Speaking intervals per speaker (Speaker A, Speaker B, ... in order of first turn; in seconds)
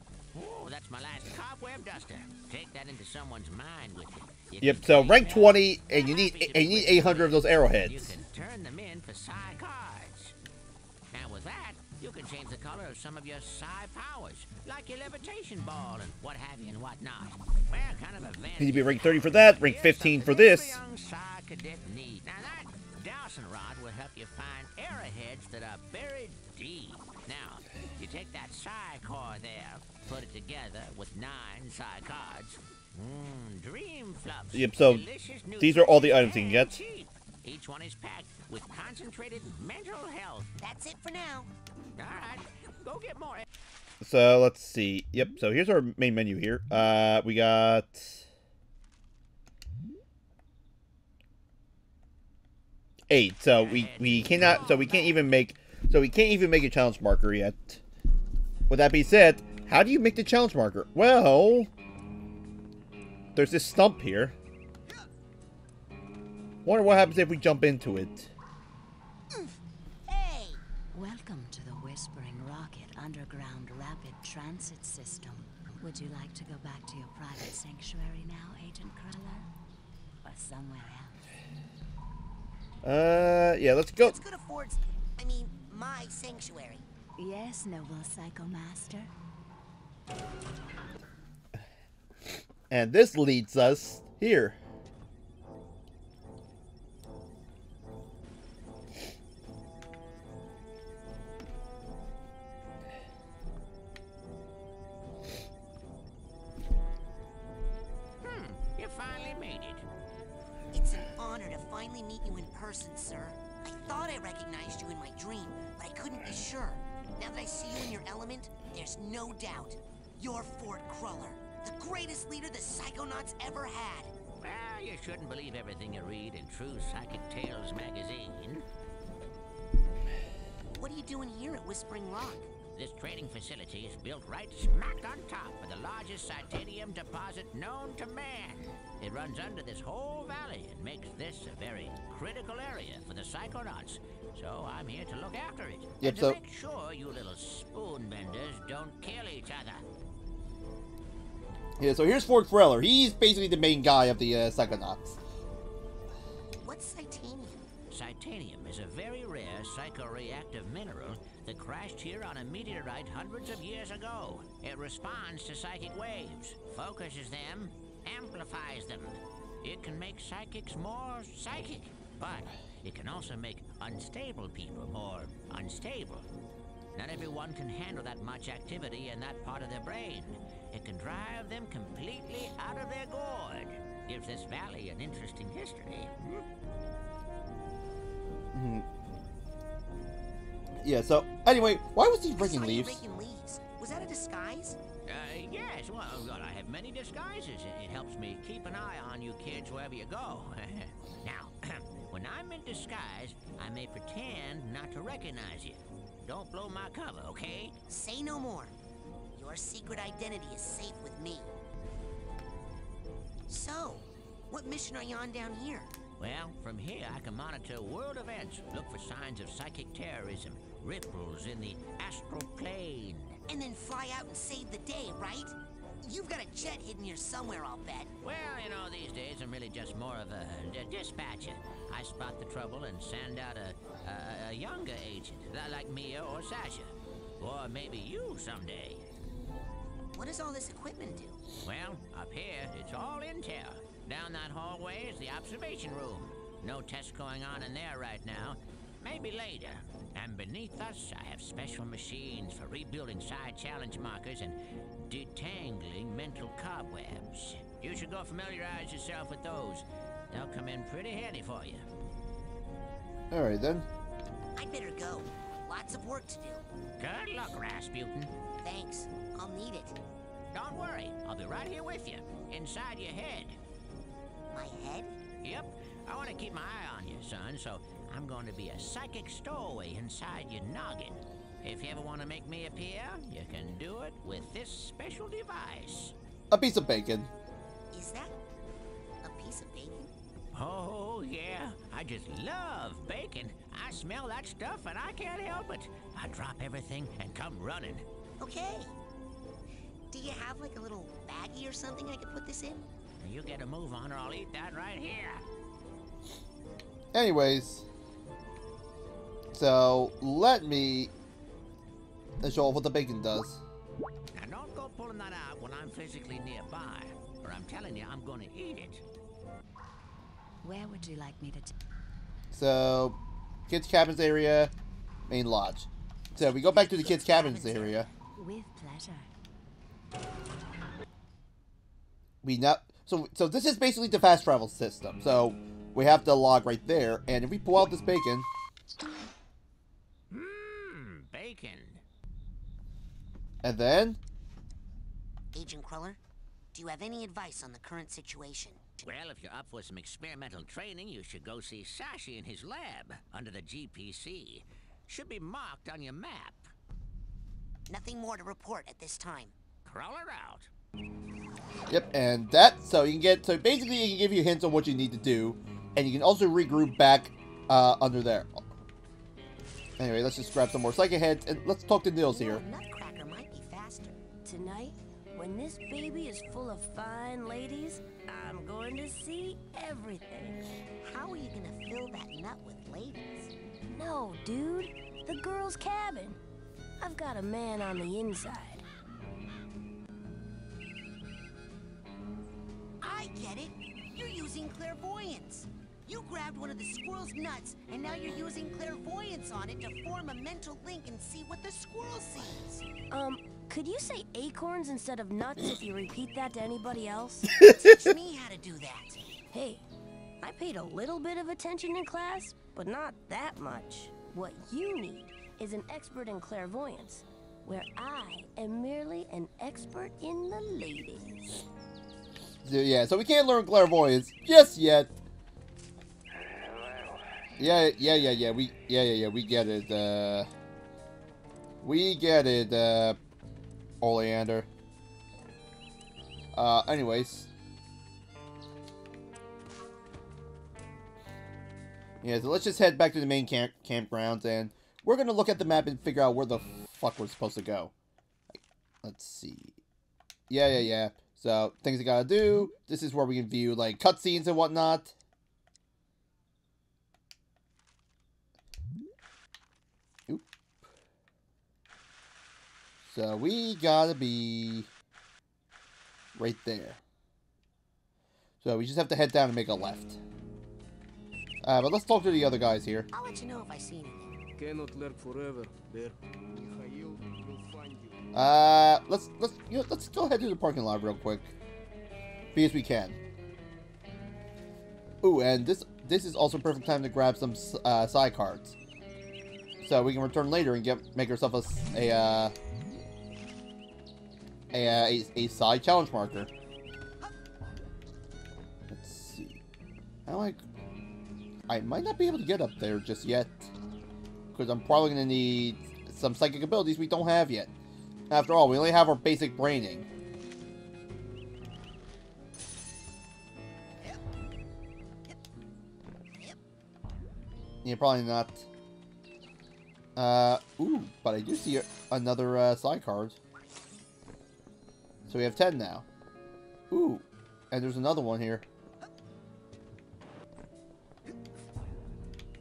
Speaker A: 0.3-10.3, 11.1-40.5, 42.0-43.5, 53.6-55.2, 108.2-109.9, 124.4-128.7, 132.7-149.8, 157.9-176.3, 176.9-186.4, 195.1-207.8, 216.2-223.4, 228.2-239.0, 241.6-261.9, 267.0-268.3, 270.5-273.6, 275.4-286.1, 290.5-298.1, 303.2-305.4, 314.3-319.0, 340.3-342.0, 349.0-356.7, 359.9-360.7
Speaker B: 4.6-8.2, 18.6-20.8, 34.5-35.0, 35.6-36.7, 44.0-48.2, 53.1-57.8, 58.7-61.7, 63.3-64.3, 66.6-68.3, 82.8-84.2, 92.7-94.6, 146.0-146.4, 151.8-155.2, 188.5-188.8, 190.8-193.0, 263.3-263.9, 286.5-287.3, 307.1-307.9, 309.5-311.1, 312.4-313.6, 322.5-323.2, 323.7-324.7, 325.3-328.1, 332.4-338.5, 343.6-344.2, 361.9-368.6, 370.0-372.6, 407.6-407.9, 422.6-425.1, 427.6-430.5, 431.8-433.2, 434.0-434.7, 436.5-437.5, 442.2-447.9, 448.5-449.8, 450.5-455.1, 463.0-464.9, 466.3-467.0, 468.6-470.2, 471.6-473.1, 478.3-481.5, 482.5-483.2, 485.2-488.8, 489.8-492.5, 494.7-496.5, 498.9-499.6, 500.2-500.6, 501.7-503.7, 504.5-507.7, 508.3-510.1, 517.8-518.7, 520.1-523.4, 525.3-526.0, 526.9-528.6
Speaker C: 40.6-41.5, 70.1-70.6, 84.0-86.8, 110.7-124.1, 130.7-132.5, 156.6-157.7, 192.3-194.8, 207.9-208.8, 209.3-211.5, 213.5-215.9, 223.5-228.1, 240.1-241.4, 264.6-266.6, 268.6-270.0, 274.5-275.1, 287.9-288.4, 289.2-290.1, 298.4-298.9, 300.1-302.8, 326.4-328.1, 345.5-346.2, 346.7-348.8, 357.9-359.5, 372.3-374.2, 381.0-383.5, 393.0-402.9, 407.6-409.2, 473.1-474.4
Speaker D: 70.9-79.5, 80.2-81.2, 87.2-89.1, 320.6-321.7, 328.3-329.3
Speaker E: 374.4-380.7, 383.9-386.4, 387.0-388.8, 403.1-407.6, 409.5-409.8, 410.4-421.6
Speaker F: 474.6-478.1